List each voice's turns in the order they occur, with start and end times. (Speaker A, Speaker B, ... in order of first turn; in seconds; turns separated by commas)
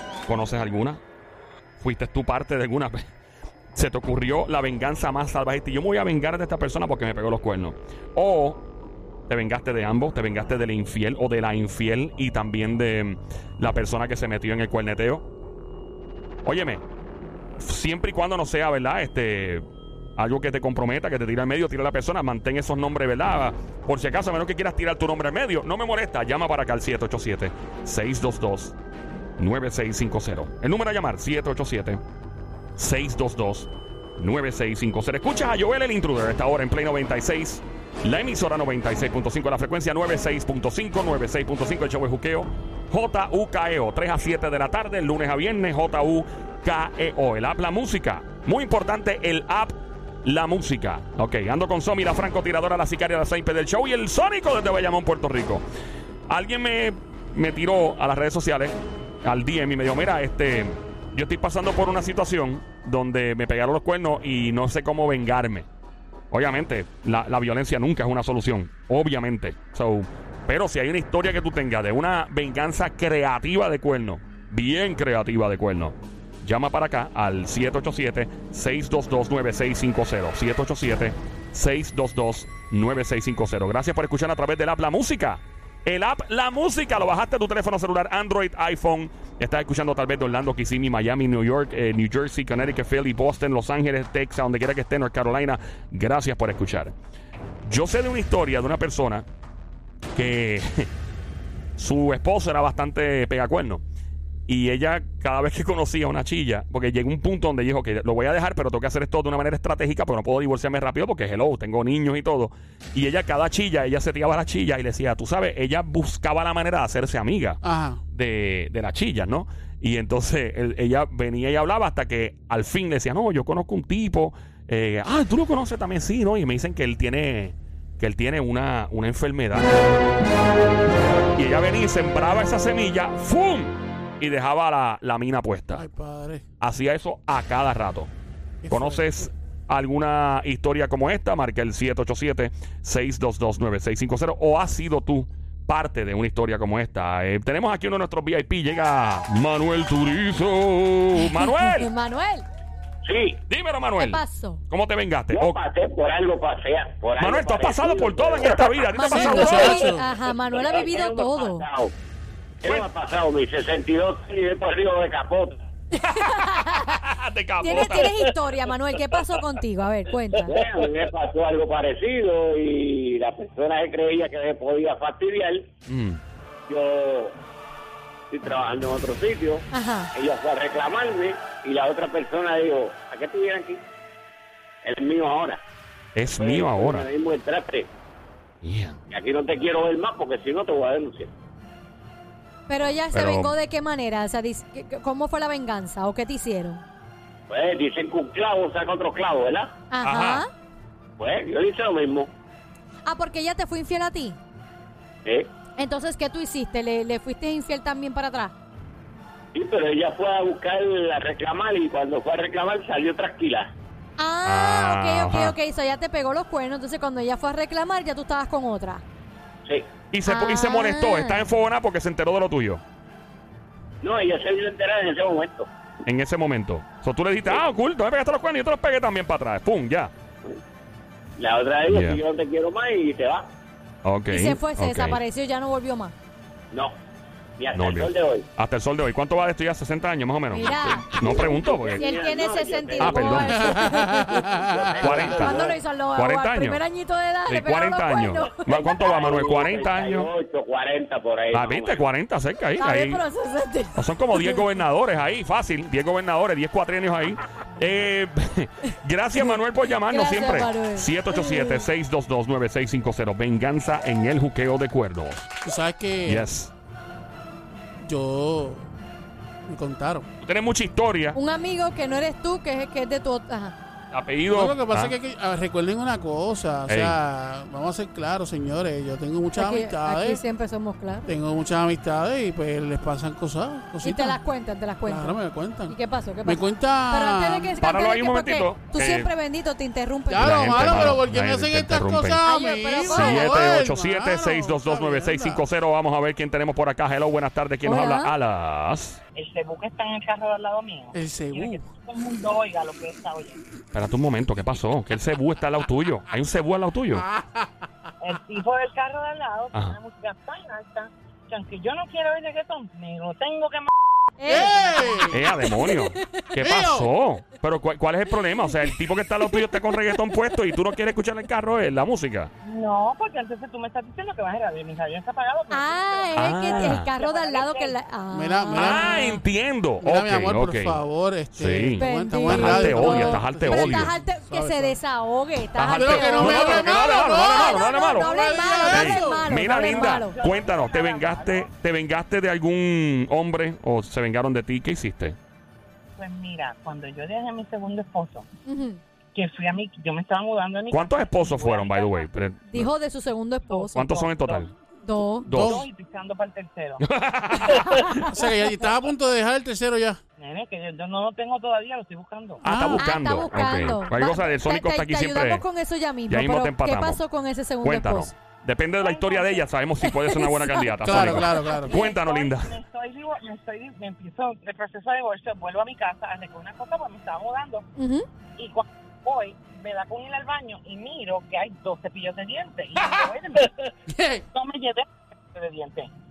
Speaker A: 0.3-1.0, Speaker A: 1.8-3.0, Speaker A: 3.7-8.6, Speaker A: 9.3-15.3, Speaker A: 16.4-16.8, Speaker A: 17.6-19.6, Speaker A: 20.2-28.8, Speaker A: 29.4-32.0, Speaker A: 32.8-55.6, Speaker A: 56.3-65.7, Speaker A: 66.3-96.9, Speaker A: 97.7-99.3, Speaker A: 100.2-100.9, Speaker A: 101.8-103.8, Speaker A: 104.5-117.6, Speaker B: 117.6-118.0, Speaker A: 118.1-129.7, Speaker A: 131.3-135.9, Speaker B: 135.7-136.4, Speaker A: 136.6-138.1, Speaker B: 138.6-139.3, Speaker A: 138.7-151.9, Speaker C: 151.2-152.5, Speaker D: 153.1-153.4, Speaker A: 153.5-155.6, Speaker C: 154.0-154.6, Speaker D: 155.3-158.7, Speaker A: 157.2-159.9, Speaker C: 158.9-161.7, Speaker B: 159.1-160.1, Speaker D: 160.4-161.9, Speaker D: 162.6-165.6, Speaker C: 165.9-167.0, Speaker A: 166.8-168.3, Speaker C: 167.6-170.6, Speaker D: 170.5-175.7, Speaker A: 175.9-176.2, Speaker D: 176.7-177.4, Speaker D: 178.3-183.8, Speaker C: 179.7-180.1, Speaker D: 184.8-185.6, Speaker A: 186.2-187.1, Speaker D: 186.2-187.9, Speaker A: 188.6-189.0, Speaker D: 189.1-191.3, Speaker C: 192.7-196.8, Speaker A: 193.1-193.6, Speaker D: 197.5-199.7, Speaker C: 199.9-200.5, Speaker A: 200.0-200.4, Speaker D: 201.2-202.3, Speaker C: 203.1-204.4, Speaker D: 205.2-205.5, Speaker C: 205.8-208.5, Speaker D: 209.5-213.7, Speaker C: 214.2-219.0, Speaker A: 214.4-215.6, Speaker A: 220.1-222.8, Speaker C: 220.3-221.5, Speaker D: 224.0-225.7, Speaker A: 226.1-230.1, Speaker D: 231.4-233.5, Speaker A: 231.9-232.2, Speaker A: 234.0-235.2, Speaker C: 234.3-236.1, Speaker D: 237.6-238.5, Speaker A: 237.7-242.0, Speaker C: 240.5-244.6, Speaker D: 241.3-245.8, Speaker A: 243.0-243.8, Speaker B: 243.3-245.3, Speaker A: 245.0-246.8, Speaker C: 245.1-249.3, Speaker A: 247.5-250.3, Speaker D: 248.7-252.1, Speaker A: 251.5-253.2, Speaker C: 252.8-254.7, Speaker A: 253.9-265.5, Speaker C: 259.4-261.9, Speaker B: 265.6-266.5, Speaker A: 266.3-266.7, Speaker B: 268.0-268.9, Speaker B: 269.7-270.3, Speaker A: 270.4-271.4, Speaker C: 271.3-273.8, Speaker A: 274.1-275.1, Speaker B: 274.5-280.4, Speaker A: 276.9-277.2, Speaker C: 279.6-281.3, Speaker B: 281.3-284.4, Speaker C: 284.0-291.2, Speaker B: 285.0-287.8, Speaker A: 287.8-289.3, Speaker B: 290.3-295.6, Speaker A: 290.4-292.4, Speaker C: 292.4-293.7, Speaker A: 293.1-299.2, Speaker C: 297.8-298.3, Speaker E: 299.4-303.6, Speaker B: 301.1-301.8, Speaker A: 303.9-307.2, Speaker B: 307.2-307.7, Speaker E: 308.2-313.9, Speaker C: 314.4-316.4, Speaker E: 314.4-315.0, Speaker B: 314.5-315.5, Speaker A: 315.3-322.5, Speaker B: 316.6-317.1, Speaker C: 319.5-320.8, Speaker E: 322.6-328.0, Speaker C: 325.7-329.4, Speaker A: 326.4-327.1, Speaker B: 328.3-329.2, Speaker A: 328.8-331.0, Speaker B: 330.0-335.0, Speaker A: 331.6-334.1, Speaker C: 332.0-340.4, Speaker A: 335.8-345.4, Speaker B: 335.8-339.7, Speaker E: 339.6-341.7, Speaker E: 346.2-348.5, Speaker C: 348.7-349.0, Speaker E: 349.4-352.3, Speaker A: 350.9-352.9, Speaker C: 352.7-354.2, Speaker E: 353.7-354.7, Speaker A: 354.0-354.7, Speaker C: 355.0-355.6, Speaker A: 355.5-355.9, Speaker B: 355.5-355.9, Speaker E: 355.6-357.0, Speaker A: 357.0-357.9, Speaker C: 357.6-358.5, Speaker B: 358.0-360.2, Speaker E: 360.4-362.6, Speaker A: 362.6-365.6, Speaker B: 362.6-363.1, Speaker C: 362.9-368.3, Speaker A: 366.3-367.2, Speaker A: 367.8-372.8, Speaker E: 369.0-369.7, Speaker C: 370.0-371.9, Speaker B: 371.0-372.0, Speaker E: 371.8-377.9, Speaker C: 378.0-378.3, Speaker E: 378.6-383.8, Speaker B: 384.1-384.4, Speaker E: 384.5-386.1